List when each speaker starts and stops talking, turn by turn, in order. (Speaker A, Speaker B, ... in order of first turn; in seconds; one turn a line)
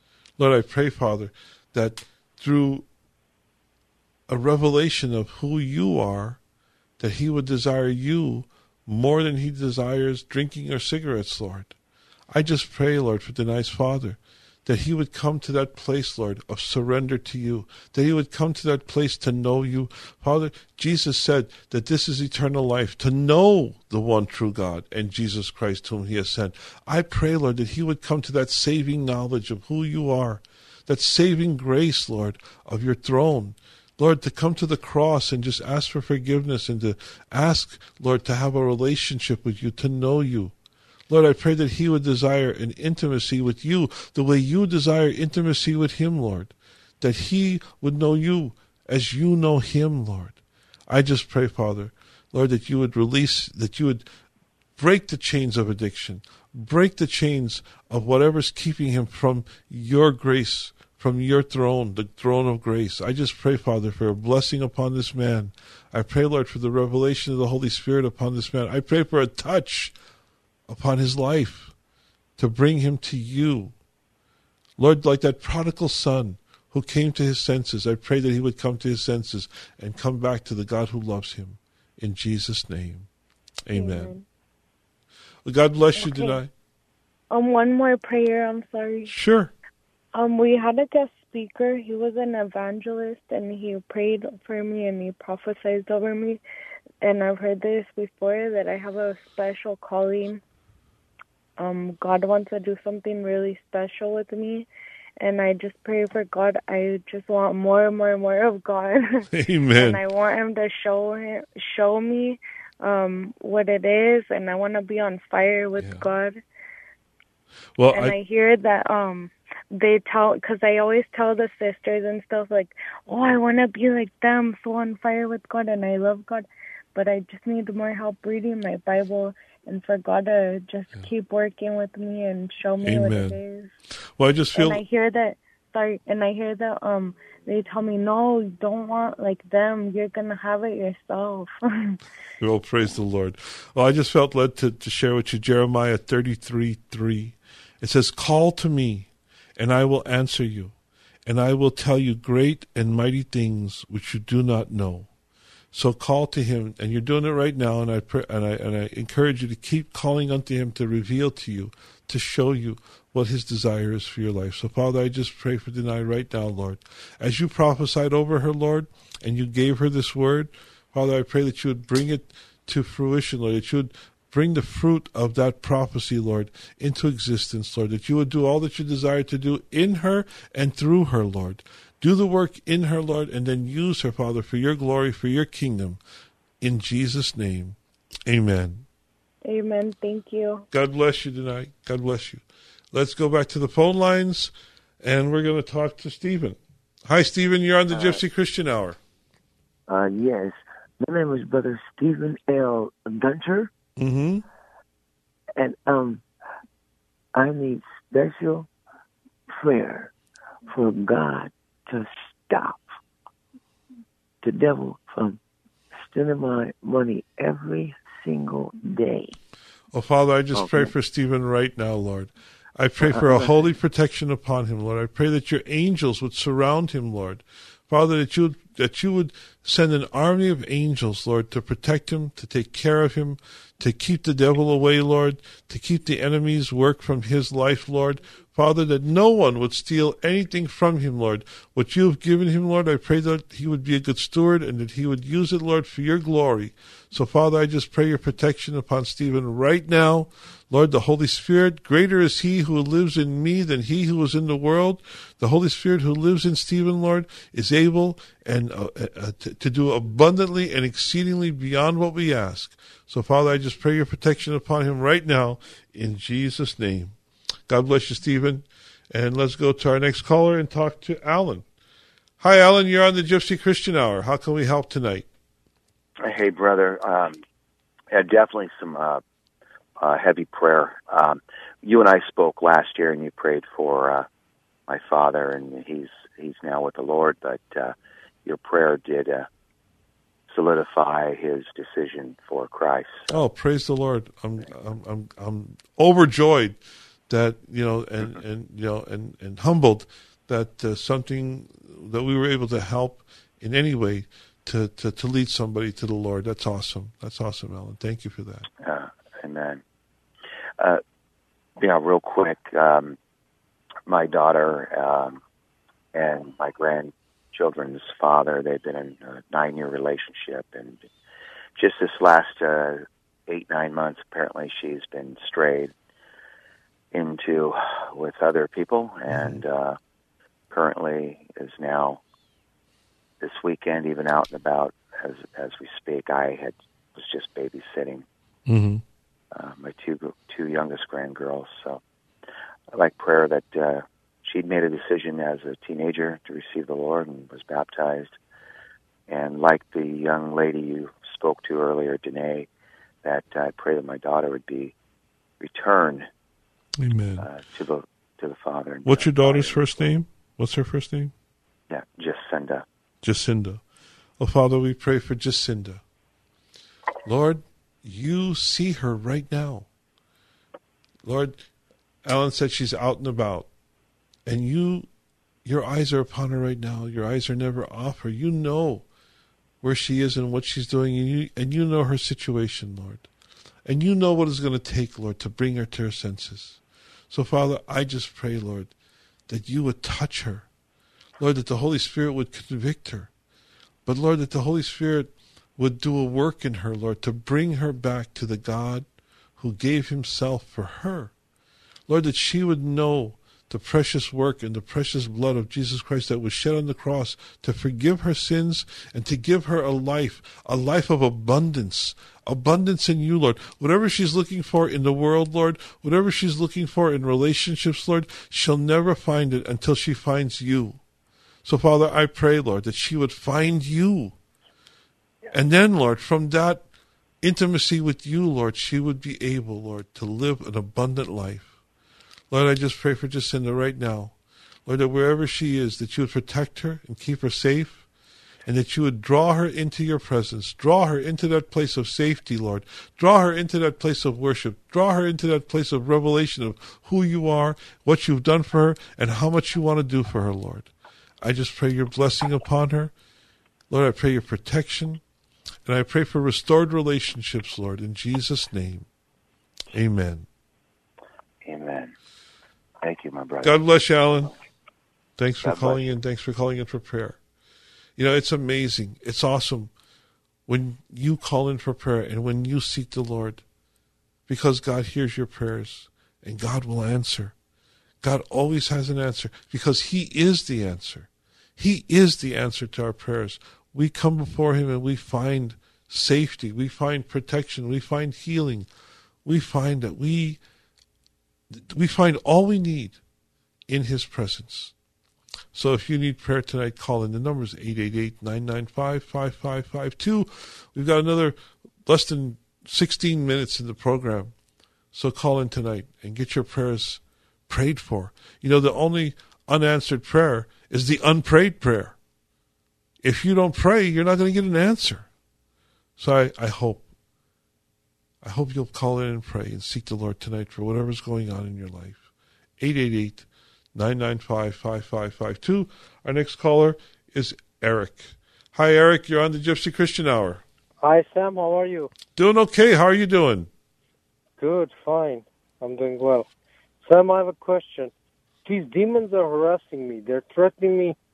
Speaker A: 0.4-2.9
Speaker A: 4.3-6.4
Speaker A: 7.0-11.8
Speaker A: 12.3-40.5
Speaker A: 41.1-50.4
Speaker A: 50.9-54.1
Speaker A: 54.8-70.0
Speaker A: 70.7-71.7
Speaker A: 72.4-73.8
Speaker A: 74.8-83.1
Speaker A: 83.7-84.1
Speaker B: 83.7-84.3
Speaker A: 85.5-86.5
Speaker B: 86.0-86.4
Speaker B: 87.3-89.1
Speaker A: 89.1-89.5
Speaker B: 90.1-96.4
Speaker B: 97.0-100.4
Speaker B: 101.6-104.7
Speaker B: 105.2-116.4
Speaker A: 109.3-110.0
Speaker A: 115.8-116.1
Speaker A: 117.8-118.2
Speaker B: 117.9-133.7
Speaker A: 132.8-133.4
Speaker A: 134.2-134.8
Speaker B: 134.6-142.0
Speaker A: 142.4-150.7
Speaker A: 151.3-155.1
Speaker A: 155.7-186.0
Speaker A: 186.6-188.9
Speaker B: 189.5-190.7
Speaker A: 190.7-199.0
Speaker C: 197.9-198.2
Speaker C: 199.9-203.7
Speaker A: 204.0-204.4
Speaker C: 205.6-206.2
Speaker C: 207.3-208.7
Speaker C: 209.6-210.1
Speaker C: 210.7-212.8
Speaker C: 214.4-215.4
Speaker C: 215.9-219.4
Speaker A: 219.9-267.1
Speaker C: 220.5-220.9
Speaker C: 223.0-223.6
Speaker A: 267.7-271.6
Speaker A: 272.4-275.3
Speaker D: 276.2-277.4
Speaker D: 278.1-279.2
Speaker D: 280.0-284.3
Speaker D: 284.9-289.5
Speaker D: 290.5-293.4
Speaker A: 293.3-308.7
Speaker D: 308.8-309.8
Speaker D: 311.8-313.2
Speaker D: 314.1-315.4
Speaker D: 316.1-321.0
Speaker D: 321.8-325.9
Speaker D: 327.1-330.0
Speaker A: 329.3-329.6
Speaker D: 330.7-332.2
Speaker D: 333.4-338.3
Speaker A: 338.7-339.0
Speaker D: 339.5-342.0
Speaker D: 342.9-348.4
Speaker D: 349.3-352.7
Speaker D: 353.2-354.9
Speaker D: 355.6-356.3
Speaker A: 357.0-357.5
Speaker D: 357.4-360.1
Speaker A: 359.0-361.3
Speaker D: 361.9-362.9
Speaker A: 363.2-363.8
Speaker A: 364.4-366.0
Speaker A: 367.2-369.9
Speaker A: 371.2-371.6
Speaker A: 372.2-373.7
Speaker A: 374.5-375.1
Speaker A: 375.6-379.1
Speaker A: 379.8-383.3
Speaker A: 383.9-388.9
Speaker A: 389.5-390.7
Speaker A: 391.4-393.3
Speaker A: 394.1-399.1
Speaker A: 399.6-401.3
Speaker A: 402.1-421.0
Speaker A: 421.6-424.4
Speaker A: 425.5-426.8
Speaker A: 427.4-431.7
Speaker A: 432.5-434.3
Speaker A: 434.9-438.0
Speaker A: 438.7-450.9
Speaker A: 451.4-453.1
Speaker A: 453.9-455.2
Speaker A: 455.9-459.1
Speaker A: 459.9-460.5
Speaker D: 461.6-462.1
Speaker D: 463.0-463.9
Speaker A: 463.6-464.5
Speaker A: 465.4-467.4
Speaker D: 465.6-466.0
Speaker A: 468.2-469.9
Speaker A: 470.7-473.6
Speaker A: 474.5-477.5
Speaker A: 478.2-488.9
Speaker A: 489.4-490.6
Speaker A: 491.7-493.2
Speaker A: 493.9-494.9
Speaker A: 495.7-504.5
Speaker A: 505.1-512.1
Speaker A: 513.2-515.3
Speaker A: 516.2-517.0
Speaker A: 518.4-522.2
Speaker A: 522.8-530.6
Speaker E: 531.0-532.1
Speaker A: 532.4-533.7
Speaker E: 534.6-536.5
Speaker E: 537.0-538.1
Speaker E: 538.6-541.2